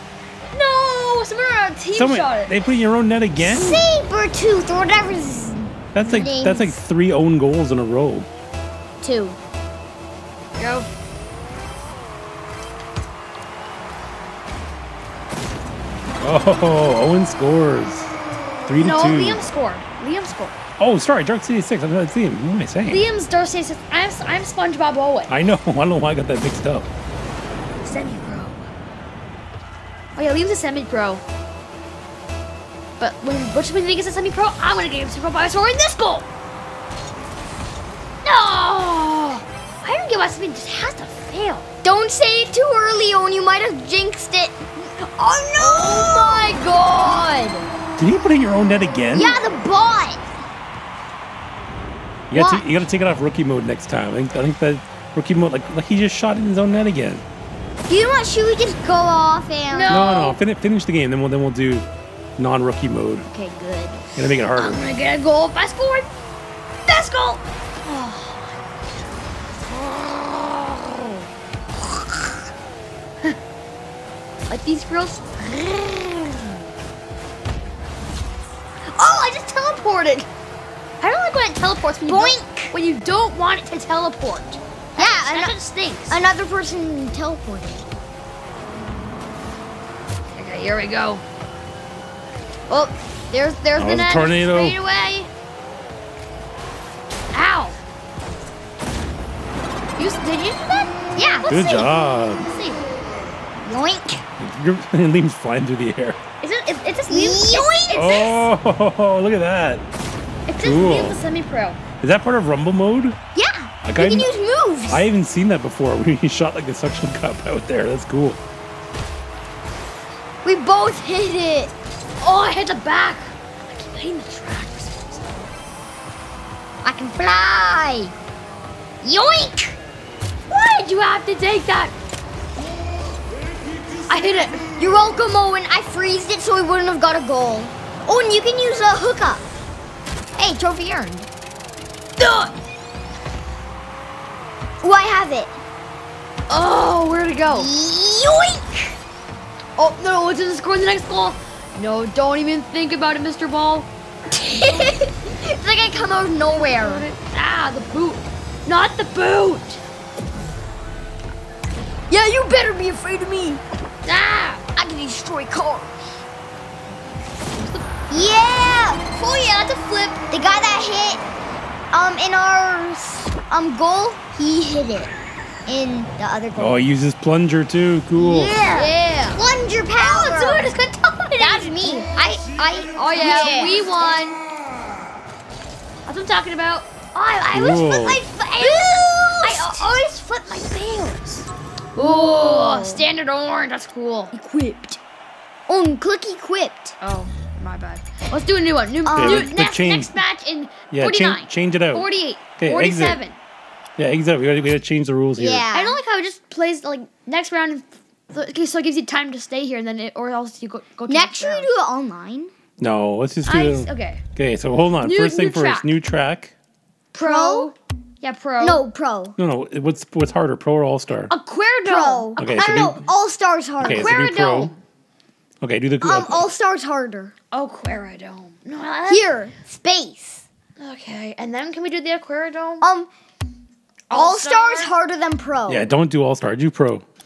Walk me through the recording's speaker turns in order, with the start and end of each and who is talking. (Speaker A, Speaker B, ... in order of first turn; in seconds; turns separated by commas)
Speaker A: 0.5-2.5, Speaker B: 1.9-3.8, Speaker C: 3.4-6.8, Speaker B: 5.9-8.3, Speaker C: 9.0-9.4, Speaker A: 10.6-10.9, Speaker B: 16.2-18.1, Speaker B: 18.6-19.4, Speaker A: 18.7-20.6, Speaker B: 20.8-23.1, Speaker A: 22.8-25.3, Speaker B: 25.3-26.9, Speaker A: 27.8-28.7, Speaker A: 30.1-31.2, Speaker A: 33.0-36.3, Speaker A: 38.2-41.7, Speaker C: 41.8-44.6, Speaker A: 45.2-46.5, Speaker C: 45.2-47.6, Speaker B: 48.0-49.4, Speaker C: 49.1-50.2, Speaker B: 52.3-57.2, Speaker C: 52.3-52.6, Speaker C: 57.9-60.1, Speaker A: 59.7-60.4, Speaker B: 59.9-63.3, Speaker C: 63.3-64.1, Speaker B: 64.2-64.8, Speaker A: 64.5-66.1, Speaker A: 66.8-68.4, Speaker A: 69.7-71.2, Speaker A: 74.5-76.4, Speaker A: 78.9-80.3, Speaker A: 81.0-86.2, Speaker C: 82.1-82.8, Speaker C: 85.0-85.5, Speaker C: 86.1-87.9, Speaker A: 90.3-91.2, Speaker A: 92.7-95.3, Speaker B: 93.8-94.8, Speaker A: 97.3-97.8, Speaker A: 100.0-102.8, Speaker C: 101.1-101.5, Speaker B: 101.5-102.5, Speaker C: 103.6-104.2, Speaker B: 104.4-106.2, Speaker A: 106.4-108.4, Speaker C: 107.1-108.3, Speaker B: 107.9-109.8, Speaker A: 110.5-111.8, Speaker B: 110.6-111.2, Speaker B: 112.0-113.2, Speaker C: 113.3-115.1, Speaker B: 113.8-114.3, Speaker B: 114.9-118.4, Speaker C: 120.4-121.7, Speaker A: 122.2-125.3, Speaker C: 126.8-128.1, Speaker C: 129.0-129.8, Speaker A: 130.5-131.9, Speaker A: 134.1-134.7, Speaker C: 134.8-139.4, Speaker C: 140.4-141.3, Speaker A: 142.2-142.5, Speaker C: 144.8-145.5, Speaker A: 146.5-147.7, Speaker C: 147.5-149.0, Speaker A: 149.8-153.9, Speaker C: 154.3-157.1, Speaker A: 156.5-159.8, Speaker C: 162.1-163.6, Speaker A: 164.0-164.6, Speaker C: 164.8-165.9, Speaker A: 167.5-167.9, Speaker C: 168.1-169.0, Speaker A: 169.1-170.2, Speaker C: 170.3-171.2, Speaker C: 171.9-175.1, Speaker C: 175.7-176.8, Speaker B: 176.6-178.6, Speaker C: 178.1-180.7, Speaker A: 178.7-179.4, Speaker A: 180.0-182.1, Speaker C: 181.4-184.1, Speaker A: 182.9-184.4, Speaker A: 186.1-194.4, Speaker B: 187.5-188.2, Speaker C: 187.9-189.9, Speaker C: 191.9-193.1, Speaker C: 194.3-195.0, Speaker C: 195.7-197.0, Speaker A: 197.0-203.3, Speaker C: 199.0-199.6, Speaker B: 199.1-200.2, Speaker B: 200.9-202.1, Speaker B: 202.6-203.2, Speaker B: 204.0-205.6, Speaker C: 205.3-206.0, Speaker A: 205.7-211.7, Speaker C: 211.1-212.5, Speaker B: 212.8-216.5, Speaker A: 213.4-214.2, Speaker A: 215.0-215.9, Speaker A: 217.1-218.8, Speaker C: 217.2-217.7, Speaker C: 218.6-219.3, Speaker B: 219.4-221.3, Speaker A: 221.3-222.9, Speaker C: 221.8-224.2, Speaker B: 222.4-223.0, Speaker B: 223.8-224.7, Speaker A: 223.8-224.8, Speaker B: 225.6-226.5, Speaker C: 226.0-227.3, Speaker A: 227.5-229.3, Speaker C: 229.1-230.4, Speaker A: 230.8-232.8, Speaker C: 232.8-233.1, Speaker A: 234.1-234.9, Speaker C: 234.1-235.9, Speaker B: 235.7-237.0